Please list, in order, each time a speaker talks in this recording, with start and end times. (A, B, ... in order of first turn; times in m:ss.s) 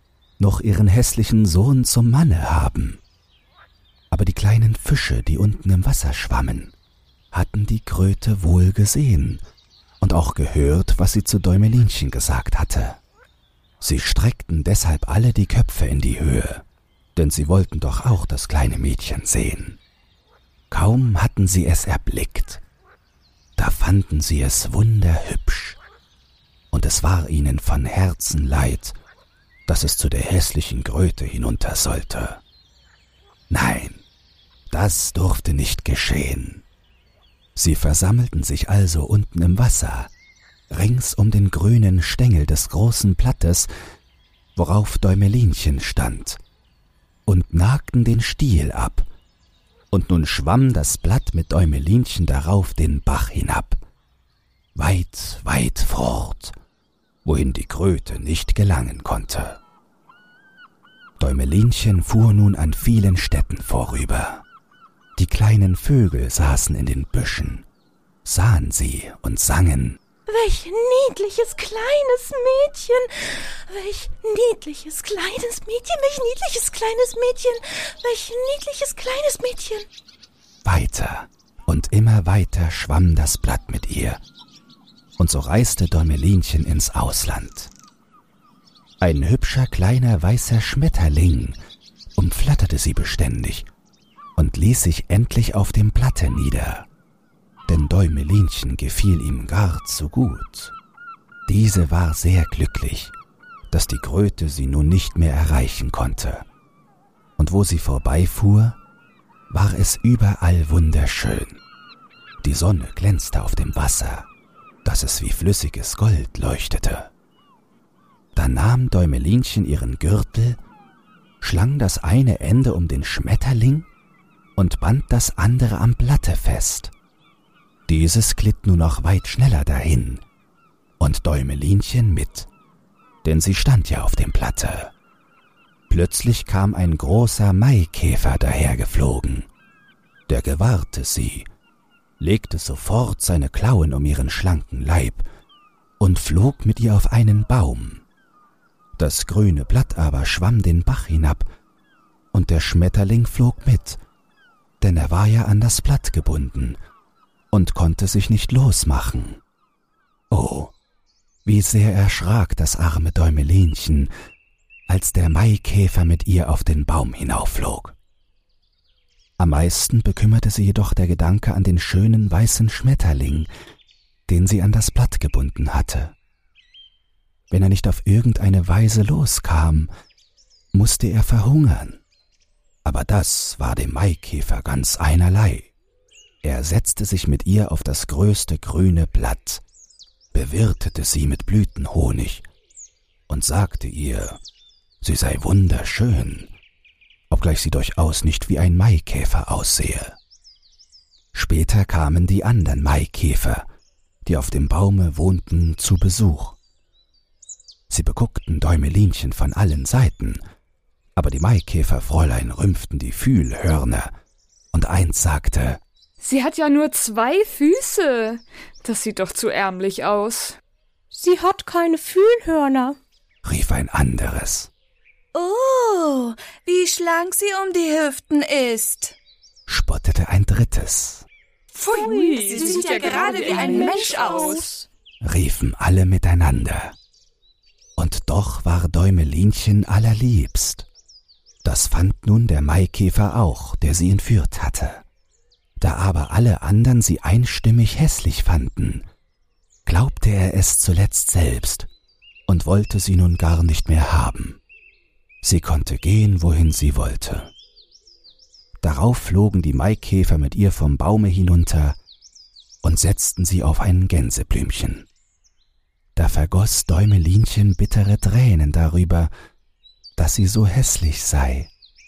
0:00.4-0:03.0 A
0:04.1-0:06.7 A
0:07.3-0:09.4 A
0:10.0-0:13.0 A
0:13.8-0:16.6 A
0:17.2-0:19.8 A
0:20.7-0:22.6 A
0:23.6-0:25.8 A
0:26.7-0:29.0 A
0:29.7-0:32.4 A
0:33.5-0:34.0 A
0:34.7-0:36.6 A
0:37.6-0:40.1 A
0:40.7-0:43.7 A
0:44.6-0:46.4 A
0:47.3-0:49.1 A
0:49.9-0:53.8 A
0:54.8-0:56.6 A
0:57.2-0:59.6 A
1:01.2-1:04.4 A
1:05.2-1:07.7 A
1:08.2-1:10.0 A
1:10.3-1:19.9 B
1:20.6-1:24.2 A
1:25.2-1:27.7 A
1:29.0-1:31.6 A
1:32.2-1:33.7 A
1:34.4-1:36.9 A
1:37.7-1:40.7 A
1:41.5-1:43.2 A
1:43.7-1:46.4 A
1:47.4-1:48.8 A
1:49.5-1:51.6 A
1:52.4-1:54.3 A
1:54.8-1:57.1 A
1:58.4-2:00.6 A
2:01.4-2:03.9 A
2:04.6-2:06.9 A
2:07.9-2:10.2 A
2:11.0-2:12.5 A
2:13.2-2:14.9 A
2:15.9-2:19.5 A
2:20.3-2:21.5 A
2:22.2-2:25.3 A
2:26.0-2:28.0 A
2:29.0-2:31.5 A
2:32.3-2:34.0 A
2:34.8-2:36.8 A
2:37.5-2:39.4 A
2:40.3-2:40.7 A
2:41.4-2:44.1 A
2:44.9-2:48.0 A
2:49.4-2:53.5 A
2:54.3-2:56.1 A
2:57.5-2:59.9 A
3:00.7-3:02.0 A
3:02.8-3:05.7 A
3:06.4-3:09.6 A
3:10.3-3:12.5 A
3:13.3-3:14.4 A
3:15.0-3:16.5 A
3:17.3-3:20.2 A
3:21.3-3:23.7 A
3:24.2-3:26.6 A
3:27.9-3:30.4 A
3:31.2-3:34.1 A
3:34.7-3:35.8 A
3:36.2-3:40.6 C
3:41.1-3:43.0 D
3:43.4-3:44.7 A
3:45.3-3:49.2 E
3:49.7-3:51.3 A
3:51.8-3:54.8 C
3:51.8-3:54.7 E
3:51.9-3:54.1 D
3:55.2-3:57.0 A
3:58.0-4:00.9 A
4:01.6-4:05.0 A
4:05.8-4:09.1 A
4:09.9-4:11.9 A
4:12.5-4:14.6 A
4:15.4-4:17.5 A
4:18.8-4:22.0 A
4:22.8-4:25.1 A
4:26.2-4:29.3 A
4:30.2-4:31.7 A